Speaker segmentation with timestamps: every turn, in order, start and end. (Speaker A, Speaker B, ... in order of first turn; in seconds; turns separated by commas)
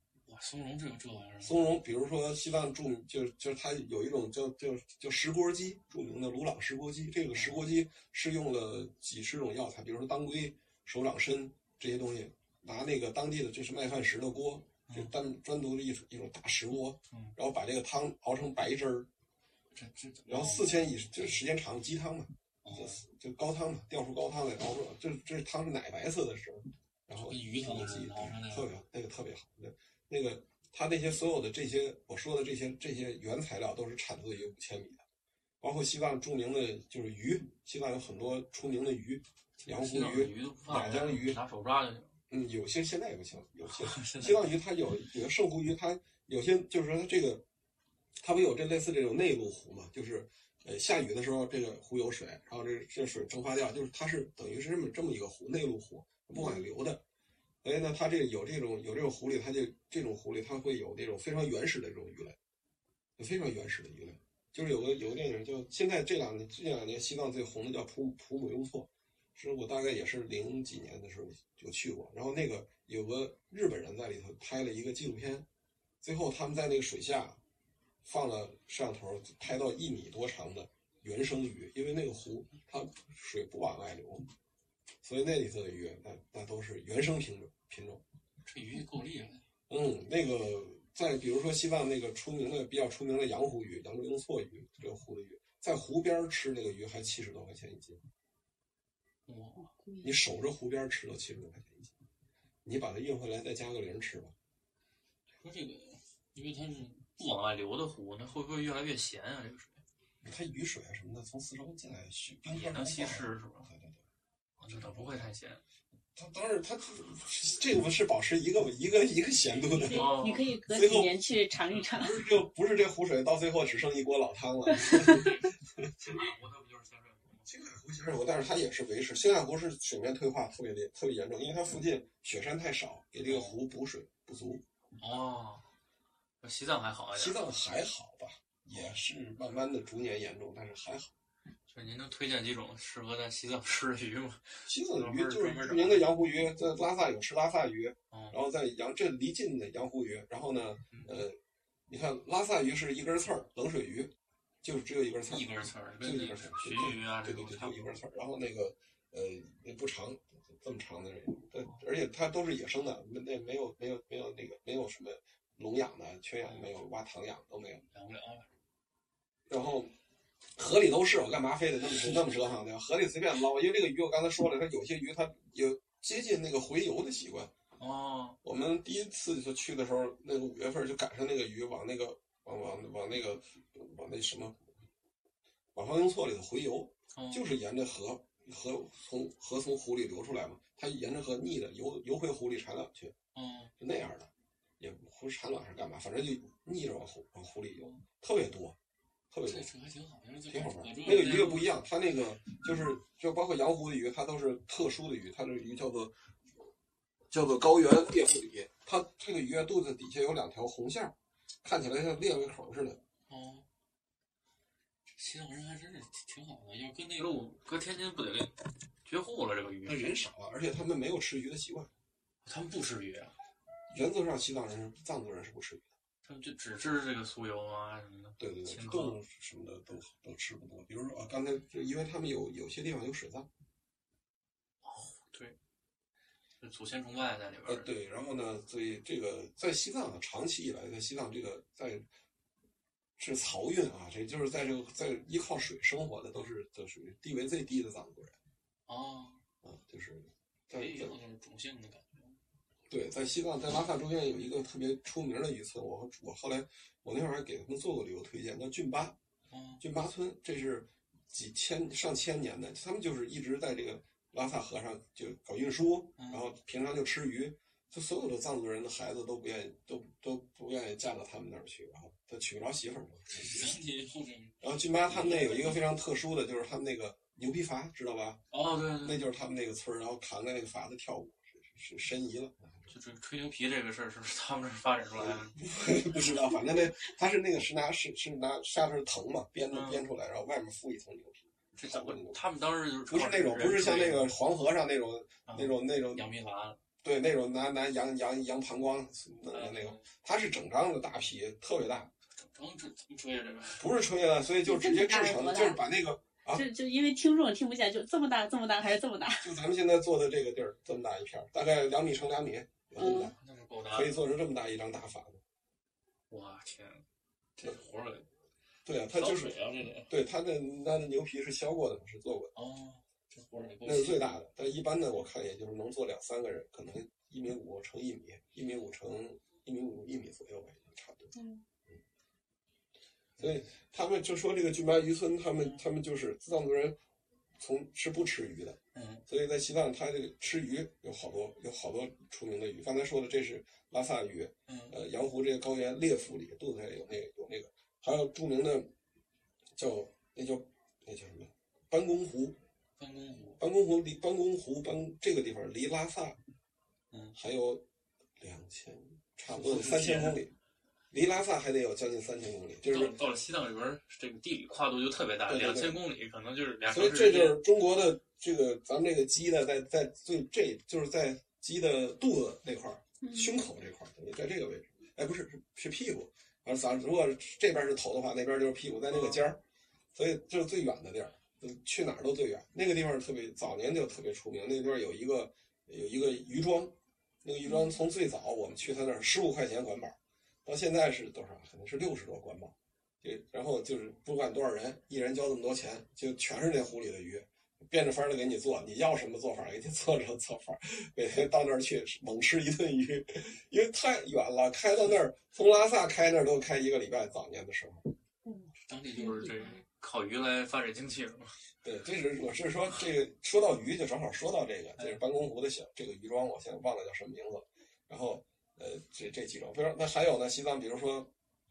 Speaker A: 0.2-1.6, Speaker B: 1.4-19.1, Speaker A: 7.3-7.6, Speaker A: 19.7-21.4, Speaker B: 20.3-35.0, Speaker A: 22.6-23.0, Speaker A: 27.2-28.7, Speaker B: 35.6-41.4, Speaker A: 39.6-42.1, Speaker B: 42.3-47.5, Speaker A: 43.7-44.5, Speaker B: 48.2-57.0, Speaker C: 56.4-56.7, Speaker B: 57.6-62.4, Speaker B: 63.2-75.5, Speaker B: 76.0-77.4, Speaker B: 78.0-84.3, Speaker B: 85.0-88.0, Speaker A: 88.4-89.5, Speaker B: 89.7-98.0, Speaker A: 99.2-99.8, Speaker C: 99.7-100.1, Speaker B: 100.0-101.9, Speaker B: 102.6-104.3, Speaker A: 105.3-109.8, Speaker B: 110.2-114.0, Speaker A: 112.5-113.7, Speaker A: 114.6-115.6, Speaker B: 114.6-115.3, Speaker B: 116.2-120.1, Speaker C: 119.7-122.2, Speaker A: 119.8-120.5, Speaker B: 120.7-121.2, Speaker A: 121.7-122.1, Speaker B: 121.9-125.9, Speaker C: 124.7-125.2, Speaker A: 124.9-127.5, Speaker B: 127.5-134.6, Speaker A: 133.2-133.6, Speaker A: 135.0-135.7, Speaker A: 136.4-137.4, Speaker B: 137.1-141.1, Speaker A: 141.7-146.1, Speaker B: 144.7-167.8, Speaker A: 148.1-148.4, Speaker A: 150.9-151.2, Speaker A: 155.3-157.9, Speaker A: 166.4-166.7, Speaker A: 167.9-168.5, Speaker B: 169.5-169.9, Speaker B: 170.6-177.5, Speaker A: 177.8-178.4, Speaker B: 178.4-184.6, Speaker B: 185.8-193.1, Speaker A: 187.1-187.4, Speaker A: 193.3-193.7, Speaker B: 193.8-198.8, Speaker B: 199.3-199.7, Speaker A: 199.4-201.7, Speaker B: 200.5-206.1, Speaker B: 207.3-213.0, Speaker A: 213.3-213.7, Speaker A: 215.1-220.1, Speaker B: 219.8-221.9, Speaker A: 222.4-223.3, Speaker B: 223.9-225.9, Speaker A: 226.2-229.2, Speaker B: 228.4-233.5, Speaker A: 234.8-235.6, Speaker A: 236.6-237.9, Speaker B: 237.7-242.1, Speaker B: 243.2-248.4, Speaker A: 248.9-249.4, Speaker B: 249.6-251.2, Speaker A: 250.7-252.4, Speaker B: 252.9-259.2, Speaker A: 259.5-259.8, Speaker B: 259.8-273.8, Speaker A: 266.2-266.4, Speaker A: 273.3-274.6, Speaker B: 274.6-278.4, Speaker A: 275.1-275.8, Speaker A: 278.5-279.2, Speaker B: 279.0-282.9, Speaker A: 282.9-285.6, Speaker B: 285.1-292.4, Speaker A: 289.7-290.1, Speaker A: 291.8-294.3, Speaker B: 293.1-296.3, Speaker A: 295.5-296.8, Speaker B: 297.0-302.1, Speaker A: 299.5-300.1, Speaker A: 302.4-303.9, Speaker B: 303.8-306.6, Speaker C: 304.6-305.8, Speaker C: 306.5-309.5, Speaker B: 309.4-313.4, Speaker C: 313.0-313.3, Speaker A: 313.1-314.1, Speaker B: 313.9-315.4, Speaker A: 316.3-317.0, Speaker A: 317.6-318.3, Speaker B: 318.9-322.5, Speaker A: 319.1-320.1, Speaker A: 322.6-324.3, Speaker B: 323.8-331.3, Speaker C: 331.3-331.6, Speaker B: 333.4-337.0, Speaker B: 337.6-348.9, Speaker A: 338.9-339.2, Speaker A: 344.7-344.9, Speaker B: 349.8-352.6, Speaker A: 353.0-353.6, Speaker B: 353.6-356.4, Speaker A: 357.1-357.4, Speaker B: 357.4-357.8, Speaker B: 358.4-360.5, Speaker A: 359.5-360.4, Speaker B: 361.1-363.2, Speaker A: 362.8-367.6, Speaker B: 365.5-366.0, Speaker B: 366.9-379.6, Speaker C: 373.2-373.5, Speaker B: 380.1-408.1, Speaker C: 387.6-388.0, Speaker C: 408.4-409.8, Speaker A: 408.8-411.5, Speaker B: 411.8-421.3